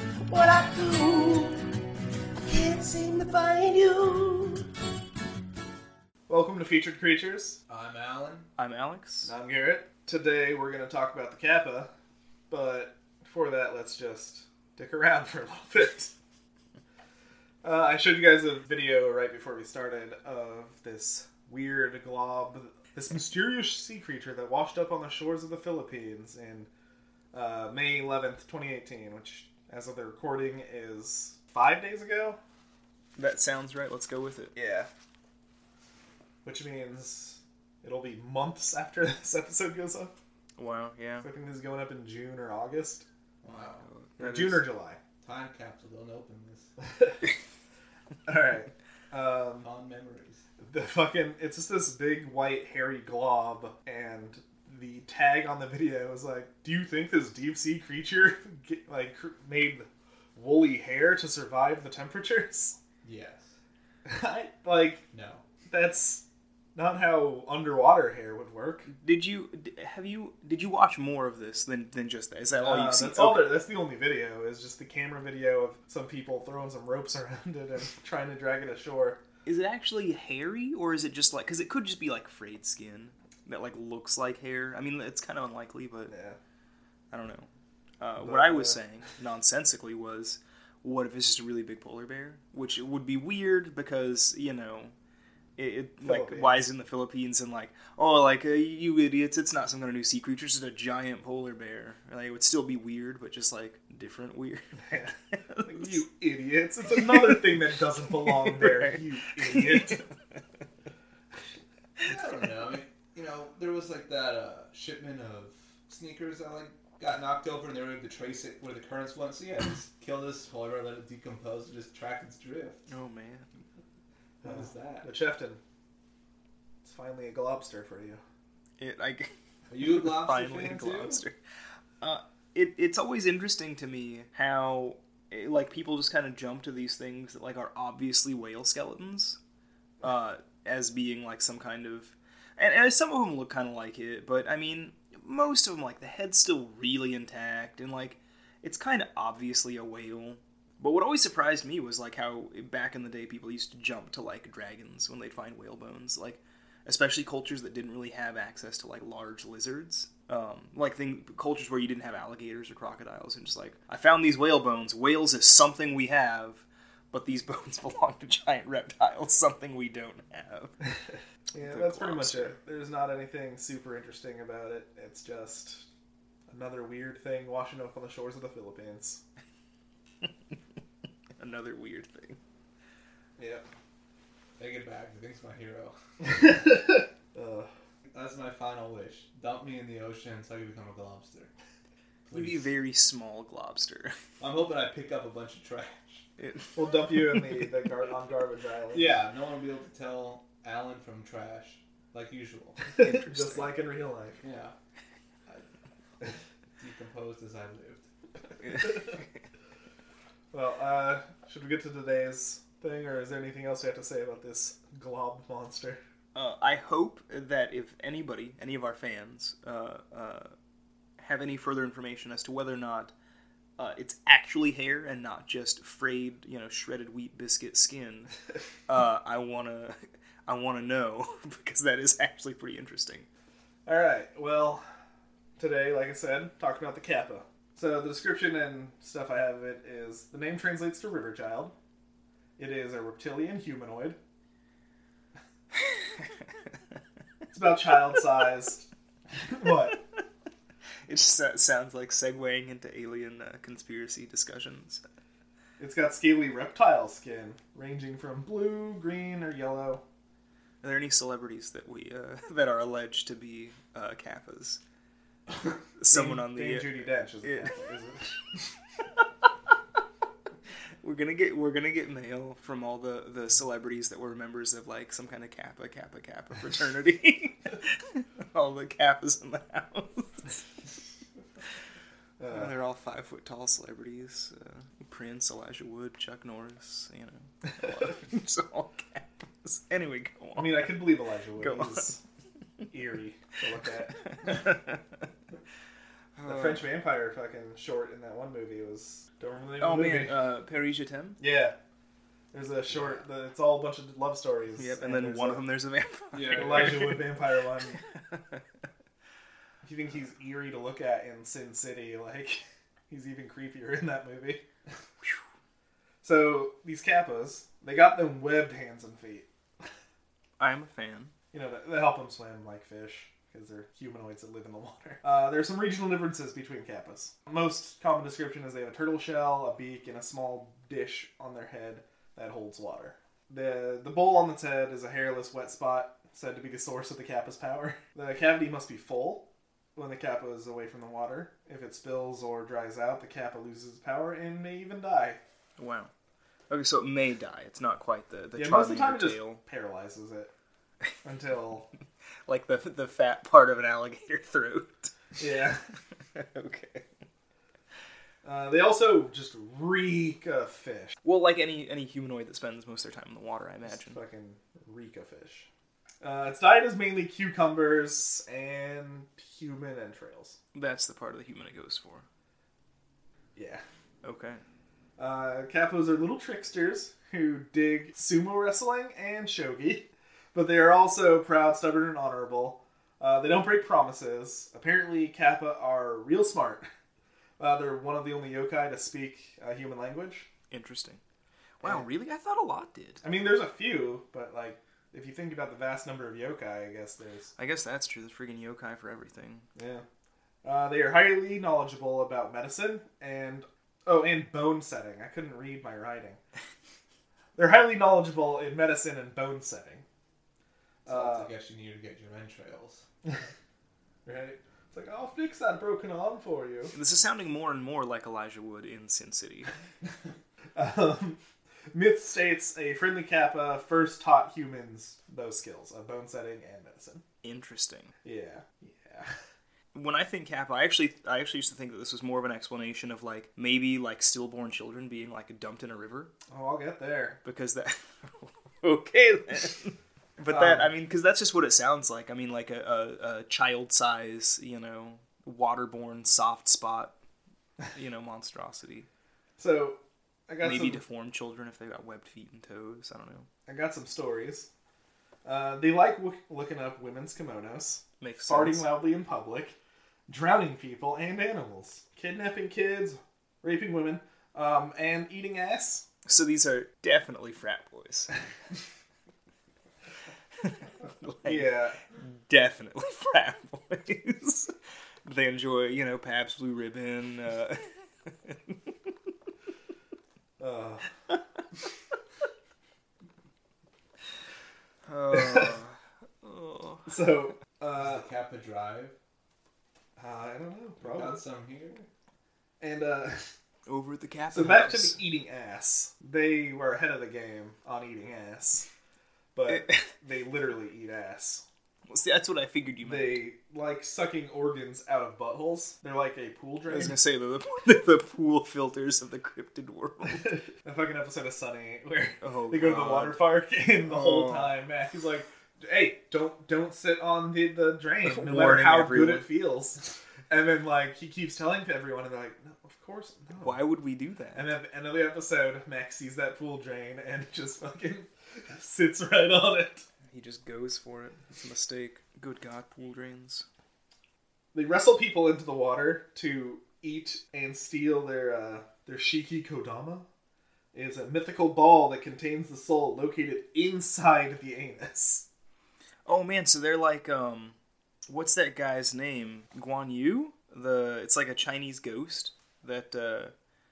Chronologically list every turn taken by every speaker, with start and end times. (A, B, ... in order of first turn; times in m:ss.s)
0:00.3-0:01.7 A
0:02.4-0:04.7 A
0:06.3-0:07.6 B
0:07.7-0:08.5 C
0:08.6-0:09.3 D
0:09.2-0:11.9 B
0:12.5-0:16.1 B
0:17.6-0:26.7 B
0:27.3-0:32.4 B
0:33.2-0:34.5 D
0:34.6-0:34.9 B
0:36.4-0:40.1 B
0:40.6-0:41.3 D
0:41.2-0:43.1 B
0:43.4-0:43.9 C
0:43.5-0:44.7 D
0:44.2-0:45.0 B
0:45.2-0:46.7 C
0:46.8-0:47.2 B
0:48.3-0:49.7 B
0:49.6-0:50.4 C
0:50.6-1:02.8 B
1:03.0-1:03.5 C
1:04.1-1:05.0 B
1:05.1-1:05.4 C
1:05.7-1:08.9 B
1:08.9-1:13.5 D
1:12.6-1:19.2 B
1:19.4-1:26.1 D
1:26.1-1:26.4 B
1:27.1-1:27.5 D
1:28.0-1:34.9 D
1:28.2-1:28.8 B
1:35.6-1:46.0 D
1:36.0-1:36.6 B
1:44.9-1:45.1 B
1:45.6-1:50.0 B
1:47.0-1:47.5 D
1:48.2-1:50.1 D
1:52.0-2:02.8 C
2:02.9-2:03.5 D
2:04.4-2:05.1 C
2:04.4-2:05.6 B
2:06.8-2:08.2 B
2:08.8-2:11.4 D
2:09.7-2:11.2 C
2:12.0-2:19.4 D
2:20.0-2:50.8 D
2:50.8-2:55.9 B
2:51.6-2:52.6 D
2:56.5-2:59.2 B
3:01.4-3:02.4 D
3:03.4-3:03.6 B
3:04.6-3:06.0 C
3:06.2-3:07.7 B
3:08.1-3:11.5 C
3:12.3-3:12.7 C
3:12.3-3:14.2 D
3:14.4-3:16.3 C
3:16.4-3:17.6 D
3:16.8-3:19.2 B
3:18.9-3:22.9 C
3:23.0-3:24.4 B
3:23.0-3:23.8 D
3:24.4-3:24.7 C
3:26.8-3:28.1 C
3:28.6-3:29.2 D
3:30.5-3:36.0 B
3:36.4-3:40.5 D
3:41.2-3:43.1 D
3:43.8-3:48.4 D
3:48.9-3:53.3 D
3:53.9-3:54.9 B
3:55.6-4:01.8 B
4:02.6-4:04.2 B
4:07.5-4:10.0 B
4:11.1-4:15.0 D
4:15.8-4:20.0 B
4:20.8-4:24.8 D
4:26.0-4:27.8 D
4:26.1-4:28.4 B
4:31.0-4:40.6 D
4:42.4-4:42.7 B
4:42.5-4:52.1 D
4:50.6-4:52.2 B
4:52.9-4:54.2 B
4:54.2-4:55.0 D
4:56.4-4:56.9 D
4:56.4-5:00.4 B
4:59.8-5:01.4 D
5:01.4-5:01.8 B
5:02.5-5:05.6 B
5:04.8-5:07.4 D
5:06.3-5:07.2 C
5:06.5-5:08.0 B
5:07.9-5:08.6 D
5:09.8-5:14.6 B
5:16.2-5:19.5 B
5:20.6-5:21.3 D
5:21.5-5:45.4 B
5:45.8-5:46.1 D
5:46.7-5:49.6 D
5:48.6-5:50.5 B
5:51.2-5:51.9 B
5:52.5-5:55.1 D
5:55.4-5:55.8 B
5:56.4-5:57.1 D
5:58.4-6:01.2 B
6:01.2-6:04.2 D
6:03.9-6:05.7 B
6:06.2-6:10.6 B
6:10.8-6:12.2 D
6:13.6-6:13.8 B
6:14.2-6:14.6 D
6:15.2-6:26.9 B
6:27.6-6:30.5 B
6:30.7-6:31.2 D
6:31.8-6:33.2 D
6:31.8-6:32.1 B
6:33.2-6:37.5 B
6:37.6-6:39.7 D
6:39.8-6:40.0 B
6:40.6-6:46.4 B
6:47.6-6:50.0 B
6:51.1-6:51.5 B
6:51.1-6:53.0 C
6:54.2-6:57.0 B
6:56.9-6:59.7 D
7:00.8-7:01.4 B
7:01.9-7:07.2 B
7:07.4-7:08.1 D
7:08.2-7:09.3 B
7:09.9-7:16.3 D
7:16.5-7:17.4 B
7:17.4-7:27.2 D
7:20.5-7:20.9 B
7:27.9-7:29.1 D
7:29.6-7:31.0 B
7:30.6-7:33.5 D
7:33.7-7:34.7 B
7:35.4-7:39.8 B
7:38.2-7:38.9 D
7:40.3-7:46.0 B
7:46.3-7:48.3 D
7:50.6-7:54.7 D
7:51.4-7:52.0 B
7:55.2-7:58.8 D
8:00.6-8:01.1 B
8:05.1-8:07.1 D
8:05.3-8:05.7 B
8:07.1-8:08.3 B
8:08.0-8:09.2 C
8:10.2-8:11.4 B
8:11.0-8:12.1 C
8:12.8-8:13.5 B
8:13.9-8:15.2 D
8:14.5-8:18.9 B
8:19.6-8:21.6 B
8:19.7-8:20.0 D
8:22.1-8:23.4 D
8:23.0-8:27.2 B
8:26.9-8:30.6 D
8:30.5-8:43.8 B
8:32.4-8:34.8 D
8:38.2-8:39.5 D
8:43.6-8:44.8 D
8:44.6-8:50.0 B
8:50.3-8:53.6 D
8:54.7-9:00.3 B
9:00.9-9:05.5 B
9:06.3-9:07.8 D
9:08.3-9:13.5 D